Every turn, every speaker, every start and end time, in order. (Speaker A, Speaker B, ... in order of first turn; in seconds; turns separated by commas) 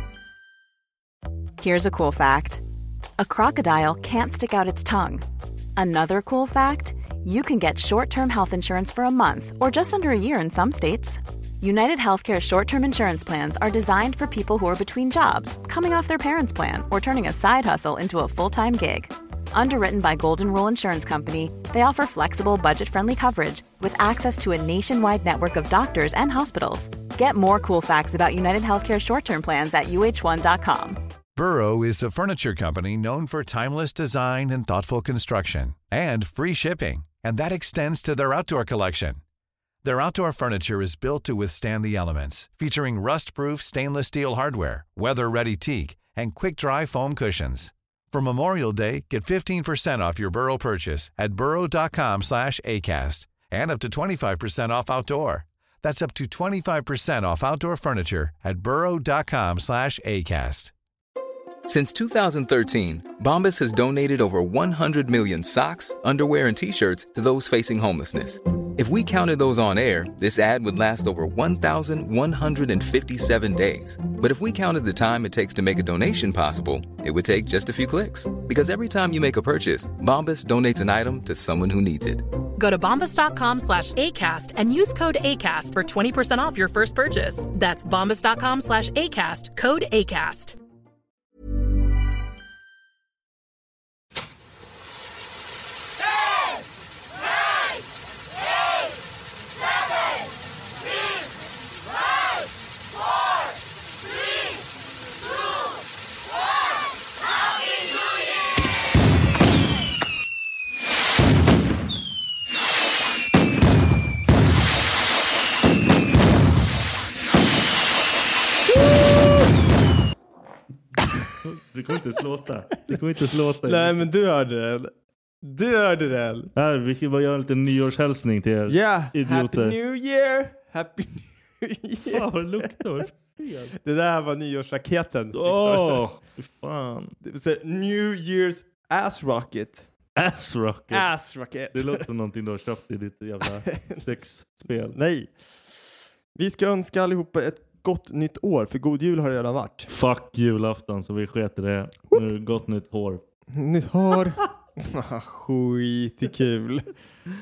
Speaker A: 1.6-2.6, Speaker A: 3.2-5.2, Speaker A: 5.8-31.0, Speaker B: 31.4-39.2, Speaker B: 39.8-60.7, Speaker C: 61.7-82.2, Speaker D: 82.6-90.6, Speaker E: 121.4-124.0, Speaker F: 123.6-126.5, Speaker E: 126.6-129.8, Speaker F: 128.7-132.8, Speaker E: 132.0-133.7, Speaker F: 133.8-136.0, Speaker E: 135.3-137.2, Speaker F: 137.2-139.9, Speaker E: 140.2-141.1, Speaker F: 140.9-142.1, Speaker E: 141.7-145.0, Speaker F: 144.9-145.8, Speaker F: 146.3-149.9, Speaker E: 149.9-153.2, Speaker F: 153.5-156.9